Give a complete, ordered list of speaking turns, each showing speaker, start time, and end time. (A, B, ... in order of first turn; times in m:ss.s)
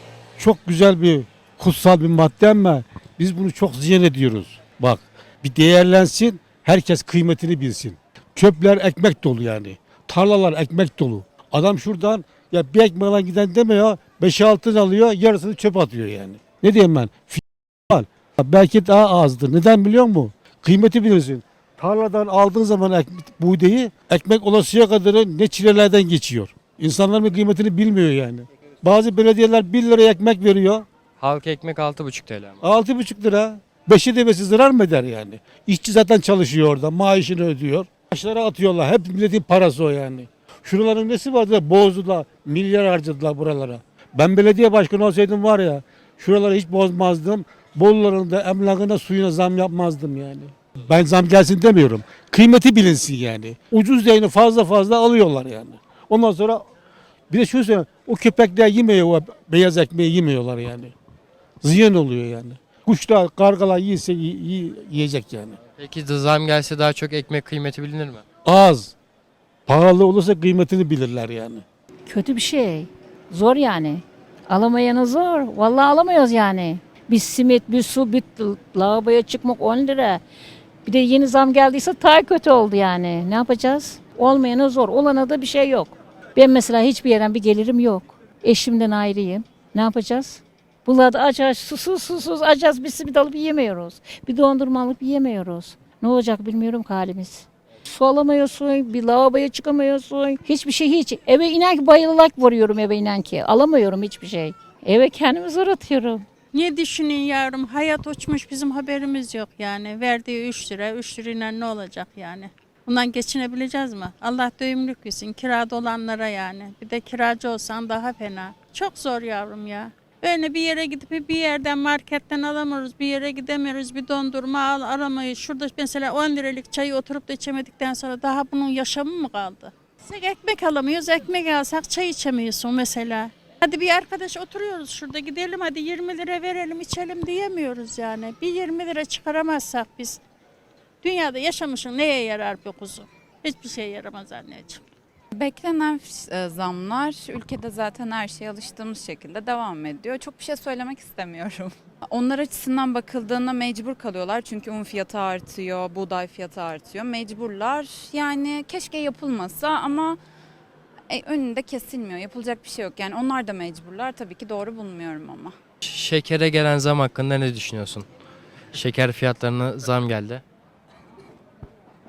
0:00.4-0:30.9 A
0:31.2-0:32.6 B
0:32.6-0:56.6 A
0:57.3-1:00.9 A
1:01.6-1:05.6 A
1:05.8-1:08.2 B
1:08.4-1:09.0 A
1:09.7-1:11.6 A
1:12.1-1:12.6 C
1:13.3-1:14.0 C
1:14.5-1:19.9 C
1:20.9-1:37.4 C
1:38.9-1:40.1 C
1:43.8-1:45.0 C
1:46.5-2:20.2 D
2:21.0-2:24.8 D
2:25.3-2:40.2 E
2:41.1-2:45.6 E
2:45.8-2:48.1 B
2:48.7-2:50.4 B